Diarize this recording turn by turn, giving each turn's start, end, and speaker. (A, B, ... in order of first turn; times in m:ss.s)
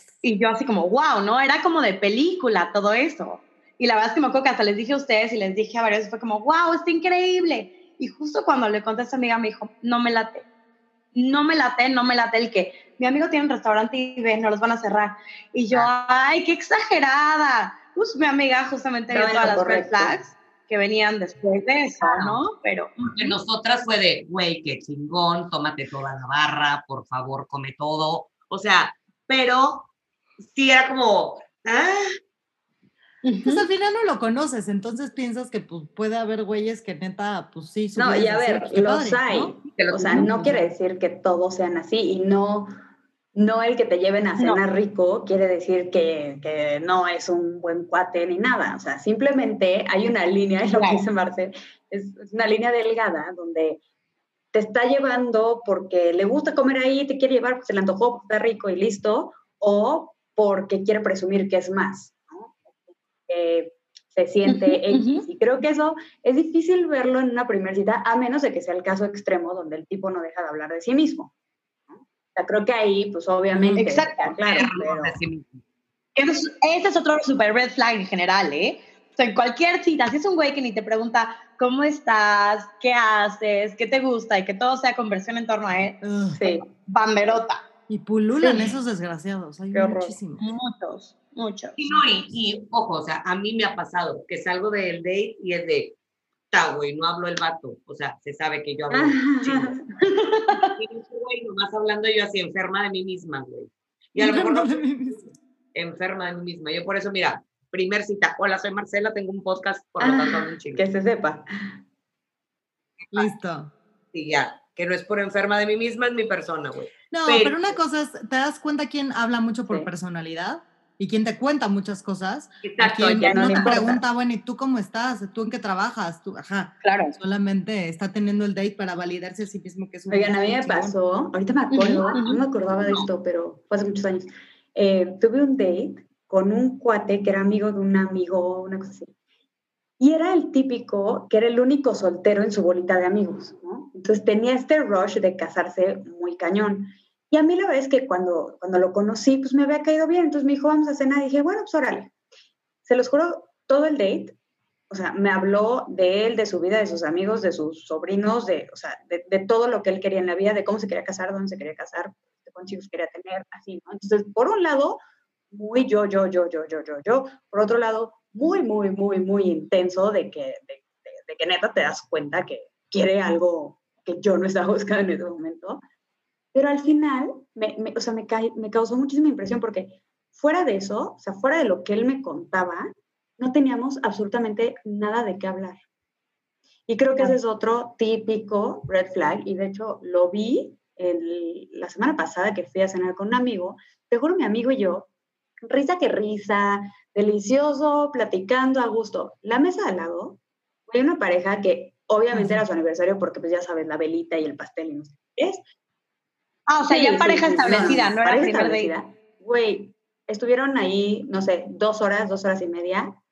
0:00.2-0:10.4 A
0:11.1-0:23.4 A
0:19.1-0:20.3 B
0:22.0-0:22.4 C
0:23.1-0:29.9 C
0:30.4-0:32.2 C
0:33.2-0:33.6 A
0:33.4-0:39.6 D
0:38.0-0:42.7 B
0:39.6-0:40.3 C
0:40.1-0:40.7 D
0:43.3-0:53.8 B
0:50.7-0:51.0 A
0:54.5-1:11.3 B
1:04.5-1:05.3 A
1:11.9-1:15.2 B
1:13.8-1:14.4 A
1:14.4-1:15.6 C
1:16.2-1:26.0 A
1:26.0-1:26.5 D
1:26.3-1:26.7 B
1:26.8-1:27.6 A
1:27.9-1:30.4 D
1:28.4-1:28.7 A
1:29.7-1:30.2 B
1:30.4-1:31.8 A
1:31.8-1:36.0 C
1:36.5-1:39.8 C
1:38.9-1:40.7 B
1:40.8-1:45.2 C
1:44.2-1:45.3 D
1:45.8-1:50.8 C
1:50.0-1:51.7 B
1:53.0-1:53.3 C
1:53.1-1:53.7 D
1:54.1-1:57.8 C
1:57.1-2:11.0 D
2:02.6-2:03.8 C
2:03.1-2:04.0 B
2:06.8-2:07.2 A
2:10.1-2:19.1 B
2:11.7-2:12.4 A
2:20.0-2:32.1 B
2:32.8-2:34.4 B
2:34.9-2:55.8 B
2:56.5-3:05.8 B
3:06.9-3:15.1 B
3:15.7-3:25.6 B
3:22.3-3:22.6 D
3:26.7-3:28.9 A
3:26.9-3:33.2 B
3:27.7-3:28.0 D